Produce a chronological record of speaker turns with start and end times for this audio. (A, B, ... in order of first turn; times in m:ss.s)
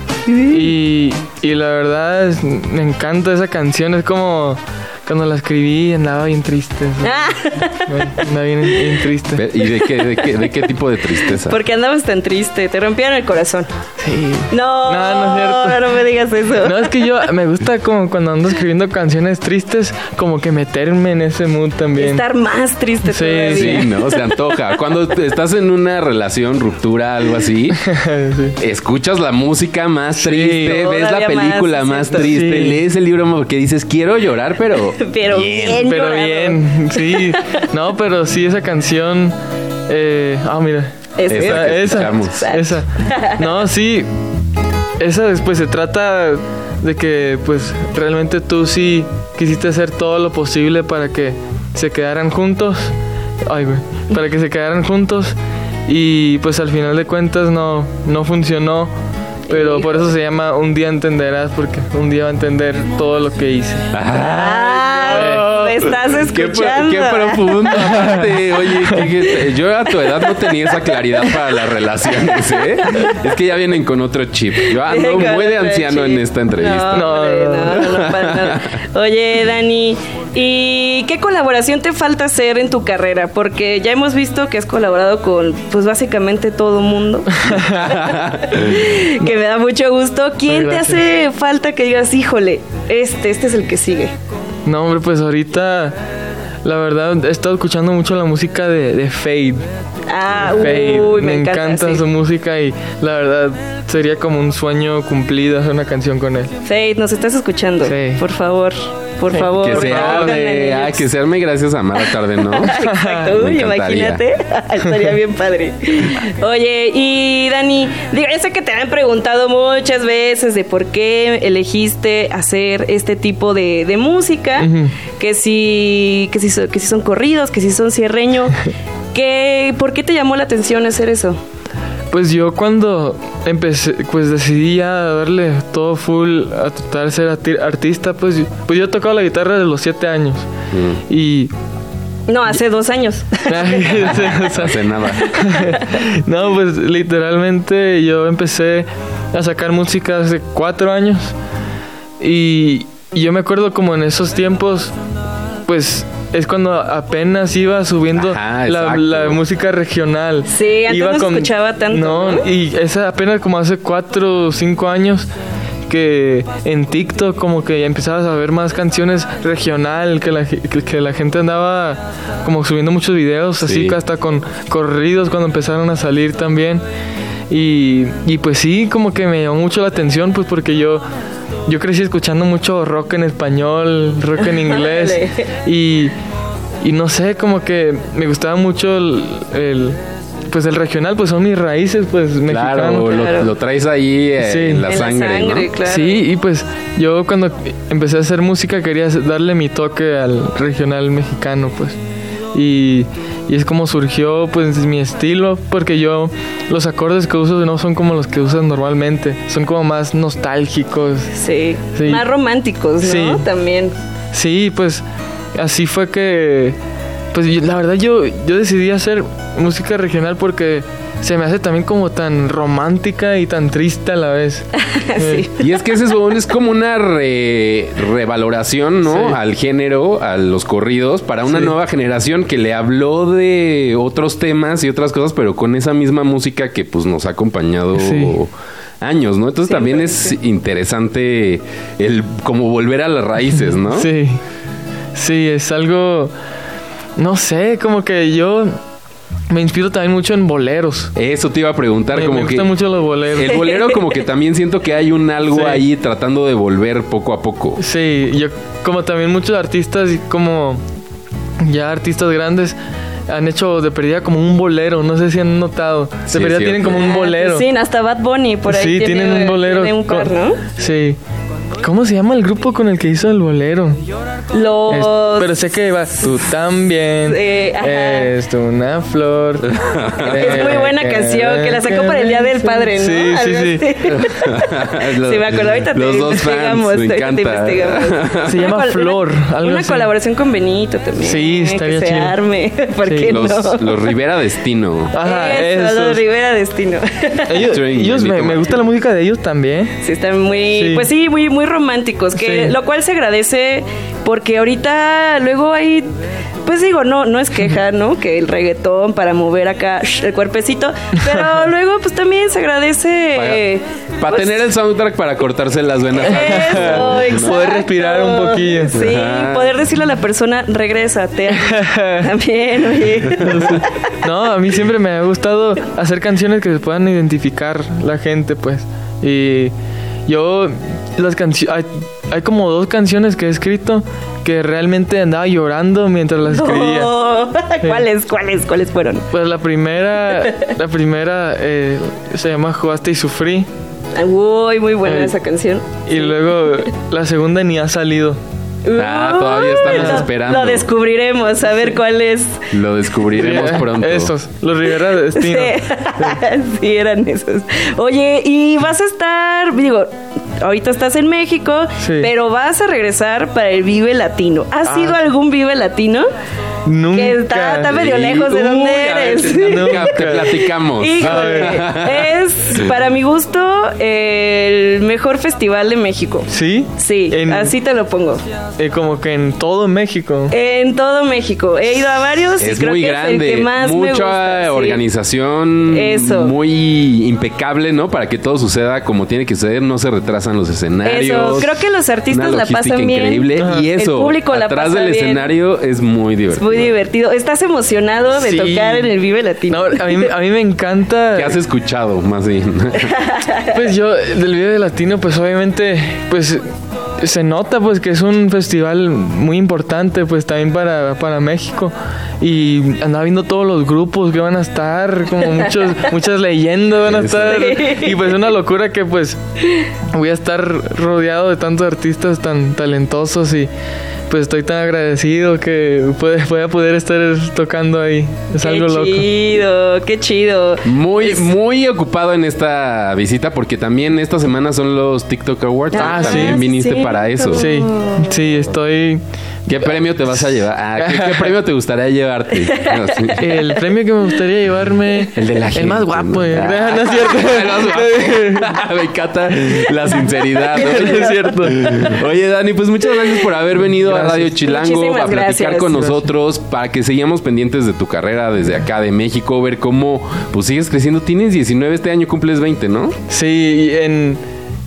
0:00.3-0:00.7 A
0:00.5-0:07.1 B
0:07.0-0:08.2 A
0:07.9-0:09.4 B
0:09.4-0:11.6 C
0:09.8-0:10.7 A
0:11.2-0:13.7 A
0:14.0-0:15.8 B
0:14.5-0:17.0 A
0:16.6-0:22.2 B
0:22.0-0:24.4 A
0:23.1-0:23.8 B
0:23.5-0:27.8 C
0:27.8-0:28.6 B
0:28.6-0:35.9 C
0:30.2-0:30.8 B
0:30.6-0:32.3 A
0:32.2-0:32.8 B
0:35.0-0:37.4 A
0:35.8-0:39.3 B
0:39.9-0:44.1 B
0:41.2-0:43.4 A
0:41.3-0:42.4 C
0:45.0-0:52.9 B
0:53.4-0:58.9 B
0:59.5-1:03.8 B
0:59.5-0:59.8 A
1:03.9-1:17.1 C
1:04.2-1:07.8 A
1:05.1-1:05.5 B
1:10.0-1:11.4 A
1:12.2-1:13.2 A
1:14.6-1:34.1 A
1:16.9-1:17.8 B
1:17.7-1:18.8 C
1:27.4-1:27.9 B
1:27.6-1:28.8 C
1:30.5-1:31.0 B
1:34.6-1:36.0 B
1:36.6-1:39.7 B
1:40.1-1:42.0 A
1:40.4-1:46.5 B
1:46.6-1:51.0 A
1:47.8-1:48.2 B
1:49.3-1:50.4 B
1:49.6-1:54.2 C
1:52.0-2:08.6 A
1:52.6-1:53.3 B
2:04.6-2:04.9 B
2:09.1-2:11.4 A
2:12.1-2:20.5 B
2:20.7-2:21.0 C
2:21.1-2:21.5 B
2:22.3-2:24.1 A
2:23.5-2:31.3 B
2:24.0-2:25.4 C
2:25.3-2:25.8 A
2:32.2-2:34.9 B
2:35.6-2:45.3 B
2:38.1-2:39.4 C
2:40.5-2:42.5 A
2:45.9-2:56.8 B
2:53.6-2:54.0 C
2:57.5-3:01.0 B
3:01.7-3:06.1 B
3:04.5-3:05.5 A
3:06.8-3:13.2 B
3:12.5-3:15.7 C
3:13.0-3:13.5 A
3:14.4-3:14.8 B
3:14.8-3:16.2 A
3:15.8-3:22.0 B
3:22.5-3:31.4 B
3:31.4-3:33.9 A
3:31.9-3:32.2 B
3:33.0-3:33.4 B
3:34.3-3:35.0 B
3:35.5-3:36.8 B
3:37.3-3:45.4 B
3:44.9-3:45.6 A
3:45.6-4:04.1 C
3:49.0-3:49.4 B
3:51.5-3:51.7 B
3:58.0-3:58.3 B
3:59.7-4:00.3 A
4:03.8-4:04.4 B
4:05.1-4:06.3 B
4:07.2-4:08.8 B
4:09.5-4:11.1 B
4:11.1-4:12.7 C
4:12.1-4:13.7 B
4:13.3-4:17.8 C
4:15.5-4:15.8 B
4:17.8-4:20.8 B
4:21.6-4:22.8 B
4:23.3-4:27.6 B
4:26.3-4:27.0 C
4:27.0-4:30.6 A
4:28.7-4:31.2 B
4:31.8-4:34.0 B
4:34.5-4:35.6 A
4:34.9-4:44.2 B
4:37.3-4:38.3 A
4:39.6-4:40.6 C
4:40.3-4:54.2 A
4:44.1-4:48.7 C
4:48.4-4:50.1 B
4:51.2-4:52.3 B
4:53.0-4:53.3 B
4:53.3-4:55.2 C
4:55.1-4:56.2 B
4:55.2-4:57.7 A
4:57.5-4:59.9 B
4:57.6-4:58.9 C
5:00.0-5:06.1 A
5:00.7-5:01.1 B
5:02.4-5:02.7 B
5:06.6-5:14.6 A
5:13.3-5:13.6 C
5:14.2-5:17.6 C
5:16.2-5:23.9 A
5:16.6-5:19.0 B
5:18.9-5:19.7 C
5:21.6-5:22.3 B
5:23.4-5:29.7 B
5:30.2-5:37.1 B
5:36.5-5:39.3 A
5:39.3-5:43.7 B
5:44.1-5:46.8 A
5:45.0-5:45.3 B
5:46.1-5:48.4 B
5:48.8-5:52.6 A
5:48.9-5:50.9 C
5:49.9-5:50.2 B
5:52.7-5:54.3 C
5:53.3-5:56.4 B
5:55.3-6:06.3 A
6:02.0-6:02.3 B
6:04.9-6:05.1 B
6:06.8-6:07.9 B
6:07.1-6:18.4 A
6:07.8-6:12.9 C
6:09.6-6:10.5 B
6:11.2-6:11.8 B
6:16.5-6:17.7 B
6:18.8-6:20.5 B
6:20.5-6:25.0 A
6:22.6-6:31.7 C
6:25.9-6:26.5 A
6:31.0-6:35.5 A
6:32.3-6:36.9 C
6:33.6-6:33.8 B
6:36.5-6:40.3 A
6:38.4-6:39.1 B
6:39.7-6:41.6 B
6:41.3-6:43.1 C
6:43.1-6:43.7 A
6:43.7-6:46.7 B
6:47.2-6:59.4 B
6:57.1-6:57.6 C
6:57.5-6:58.2 A
7:00.1-7:03.7 B
7:04.3-7:09.3 B
7:08.6-7:11.4 A
7:10.8-7:17.6 C
7:15.9-7:18.3 A
7:16.0-7:16.6 B
7:17.6-7:19.2 B
7:19.7-7:23.5 C
7:21.0-7:21.5 B
7:22.7-7:23.4 A
7:23.4-7:28.8 B
7:25.3-7:43.2 C
7:30.8-7:32.1 B
7:30.9-7:31.3 A
7:33.9-7:34.6 B
7:34.6-7:36.0 A
7:36.0-7:36.3 B
7:43.3-7:44.4 B